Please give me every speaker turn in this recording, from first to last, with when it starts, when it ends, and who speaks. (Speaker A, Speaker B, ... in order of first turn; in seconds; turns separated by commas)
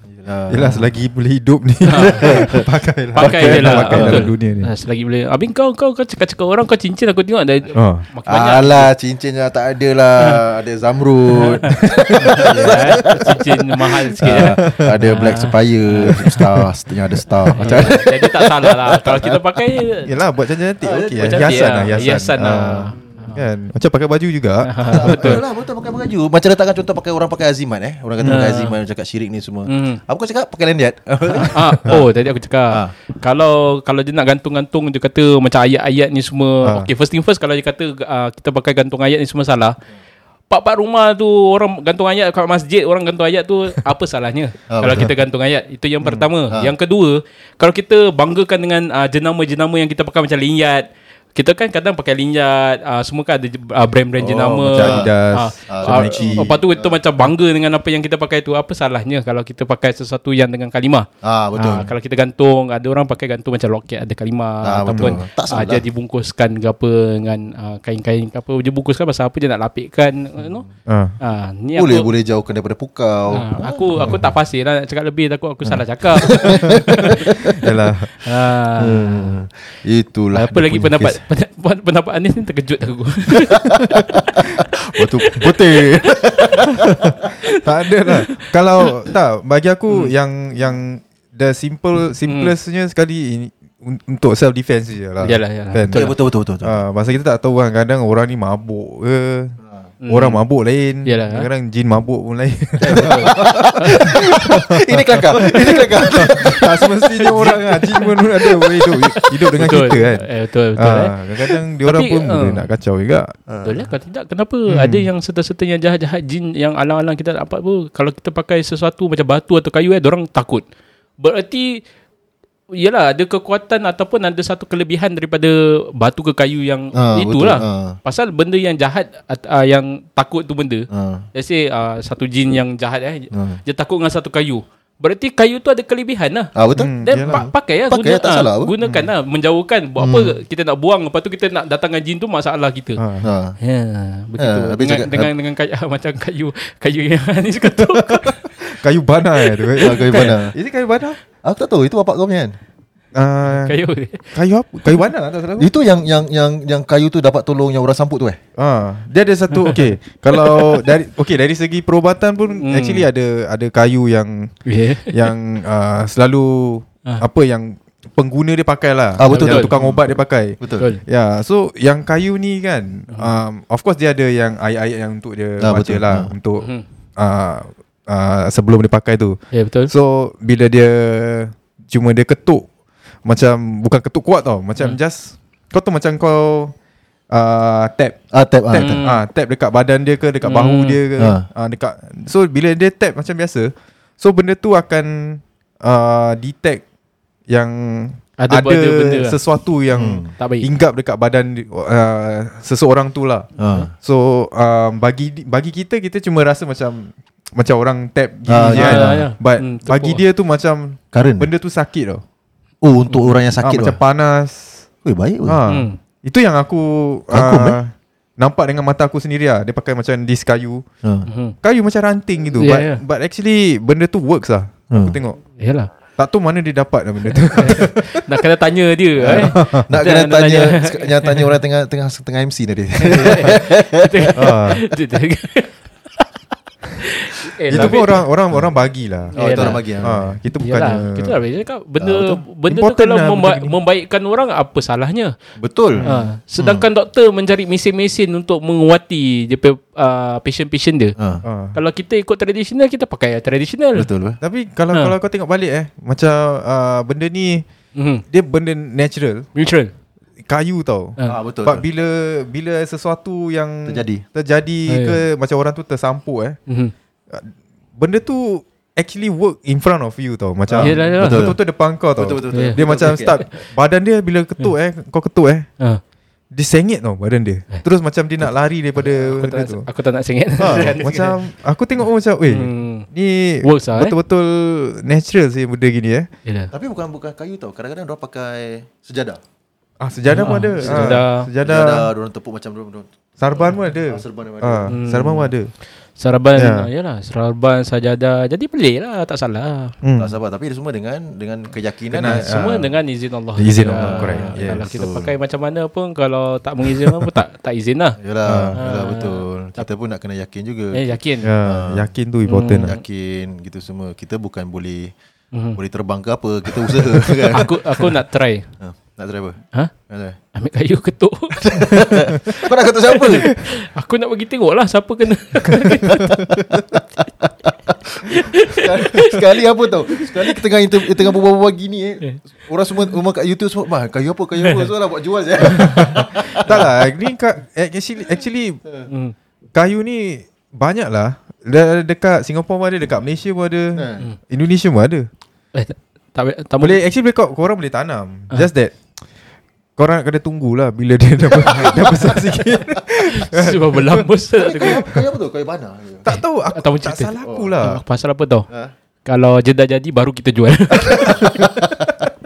Speaker A: 0.2-0.8, Speaker B: 0.5-4.7, Speaker C: 1.9-2.6, Speaker A: 2.0-4.2, Speaker C: 3.1-8.9, Speaker B: 7.7-8.1, Speaker A: 8.3-19.4, Speaker C: 11.4-16.4, Speaker B: 11.4-13.0, Speaker B: 14.2-15.0, Speaker B: 16.0-16.7, Speaker B: 17.5-18.0, Speaker C: 17.6-20.1, Speaker B: 20.1-25.4, Speaker A: 20.8-22.1, Speaker C: 20.9-23.4, Speaker C: 24.6-25.4, Speaker A: 24.9-32.1, Speaker C: 28.2-28.8, Speaker C: 29.7-30.0, Speaker C: 31.4-39.8, Speaker B: 36.6-36.9, Speaker C: 40.5-70.6, Speaker A: 44.7-45.1, Speaker B: 46.0-46.3, Speaker B: 54.2-56.5, Speaker A: 54.4-55.1, Speaker A: 55.7-57.0, Speaker A: 61.2-61.9, Speaker A: 64.6-65.8, Speaker B: 70.9-71.1, Speaker C: 71.2-72.1, Speaker A: 71.8-74.2, Speaker C: 73.3-77.4, Speaker A: 75.7-77.6, Speaker B: 77.6-78.1, Speaker C: 78.2-79.4, Speaker A: 78.8-81.2, Speaker C: 80.3-86.8, Speaker A: 83.5-87.1, Speaker B: 86.8-96.0, Speaker C: 87.4-88.9, Speaker C: 92.2-92.5, Speaker C: 95.2-96.1, Speaker A: 95.9-96.8, Speaker B: 96.6-99.5, Speaker C: 100.0-100.4, Speaker B: 100.1-103.5, Speaker C: 101.0-101.5, Speaker C: 102.8-104.0, Speaker A: 102.9-106.9, Speaker B: 104.0-113.3, Speaker C: 106.2-112.6, Speaker A: 109.6-110.0, Speaker A: 113.5-113.9, Speaker C: 113.6-120.6, Speaker B: 114.7-115.1, Speaker C: 121.2-121.8, Speaker C: 122.7-143.0, Speaker A: 127.0-128.0, Speaker A: 130.9-131.3, Speaker A: 133.3-133.6, Speaker A: 136.6-138.7, Speaker B: 136.8-137.4, Speaker B: 138.8-139.1, Speaker A: 140.0-140.3, Speaker B: 143.0-143.3, Speaker A: 143.2-143.6, Speaker C: 143.6-148.4, Speaker A: 144.4-145.3, Speaker B: 147.7-151.2, Speaker C: 149.5-150.3, Speaker A: 149.8-150.6, Speaker A: 151.4-152.6, Speaker B: 153.1-153.8, Speaker C: 153.5-154.3, Speaker B: 154.3-155.7, Speaker A: 155.6-158.4, Speaker B: 158.6-164.5, Speaker C: 159.5-159.8, Speaker C: 160.4-160.8, Speaker C: 162.6-163.1, Speaker C: 164.7-165.3, Speaker B: 165.1-182.7, Speaker A: 169.2-170.9, Speaker C: 169.3-169.7, Speaker A: 175.6-176.3, Speaker C: 179.5-179.9, Speaker B: 183.2-186.7, Speaker B: 187.3-196.8, Speaker A: 188.3-189.0, Speaker C: 188.7-189.2, Speaker C: 190.4-191.0, Speaker A: 191.2-191.5, Speaker B: 197.5-203.5, Speaker C: 198.4-199.4, Speaker A: 199.9-200.3, Speaker C: 200.4-200.7, Speaker A: 203.6-203.9, Speaker B: 204.0-212.2, Speaker A: 208.5-209.3, Speaker C: 208.7-210.2, Speaker A: 211.1-211.5, Speaker A: 212.8-214.0, Speaker B: 213.6-214.8, Speaker A: 215.1-215.6, Speaker B: 215.5-220.8, Speaker C: 215.7-216.0, Speaker A: 217.3-217.8, Speaker C: 221.2-221.6, Speaker B: 221.6-225.4, Speaker C: 222.6-223.0, Speaker A: 224.9-225.2, Speaker C: 225.6-225.9, Speaker B: 226.2-228.2, Speaker C: 227.5-231.5, Speaker A: 229.2-234.5, Speaker B: 229.3-229.9, Speaker C: 233.0-236.3, Speaker B: 233.2-233.5, Speaker B: 234.4-234.8, Speaker C: 237.0-238.2, Speaker A: 237.7-238.7, Speaker B: 237.7-241.4, Speaker C: 239.4-239.8, Speaker A: 239.4-240.4, Speaker C: 240.6-245.3, Speaker B: 242.6-243.8, Speaker A: 245.6-246.9, Speaker C: 246.0-251.1, Speaker A: 251.2-251.4, Speaker B: 251.4-251.8, Speaker C: 251.7-254.1, Speaker A: 254.0-254.4, Speaker B: 254.4-257.6, Speaker C: 257.9-258.2, Speaker B: 258.3-259.5, Speaker C: 259.6-259.9, Speaker B: 260.4-266.6, Speaker A: 261.3-261.9, Speaker A: 263.9-264.2, Speaker C: 264.9-265.2, Speaker B: 267.3-275.7, Speaker A: 270.7-271.6, Speaker C: 270.8-271.5, Speaker A: 272.1-273.4, Speaker C: 272.5-272.8, Speaker B: 276.5-279.8, Speaker C: 279.1-281.4, Speaker B: 280.6-286.3, Speaker A: 280.6-280.9, Speaker C: 282.5-283.1, Speaker C: 283.6-284.1, Speaker C: 286.4-286.7, Speaker A: 286.7-289.4, Speaker B: 290.0-292.1, Speaker C: 290.3-291.5, Speaker A: 290.8-295.0, Speaker B: 293.4-295.7, Speaker C: 294.9-295.5, Speaker C: 296.2-299.9, Speaker B: 296.6-296.9, Speaker B: 300.0-300.4, Speaker A: 300.2-302.8, Speaker B: 302.1-302.9, Speaker C: 302.2-308.2, Speaker B: 303.6-304.9, Speaker A: 303.8-305.3, Speaker A: 308.2-312.1, Speaker B: 308.4-308.8, Speaker C: 308.8-309.9, Speaker C: 310.9-311.5, Speaker B: 311.4-312.9, Speaker C: 312.4-313.0, Speaker A: 312.8-315.1, Speaker C: 315.5-315.8, Speaker A: 315.8-318.1, Speaker C: 317.5-318.7, Speaker A: 318.8-320.4, Speaker C: 320.5-326.5, Speaker A: 321.6-323.5, Speaker B: 326.1-326.8, Speaker A: 326.9-336.9, Speaker C: 328.2-329.4, Speaker C: 330.1-331.1, Speaker C: 335.7-336.2, Speaker B: 336.6-338.8, Speaker C: 339.1-339.3, Speaker B: 339.7-345.3, Speaker A: 343.9-344.2, Speaker C: 345.7-347.0, Speaker B: 346.8-349.0, Speaker B: 350.0-354.3, Speaker A: 351.5-352.3, Speaker C: 353.3-355.1, Speaker A: 354.6-356.3, Speaker B: 354.8-355.2, Speaker B: 356.2-358.0, Speaker C: 356.3-358.7, Speaker A: 357.4-357.8, Speaker C: 359.2-361.7, Speaker B: 361.0-362.3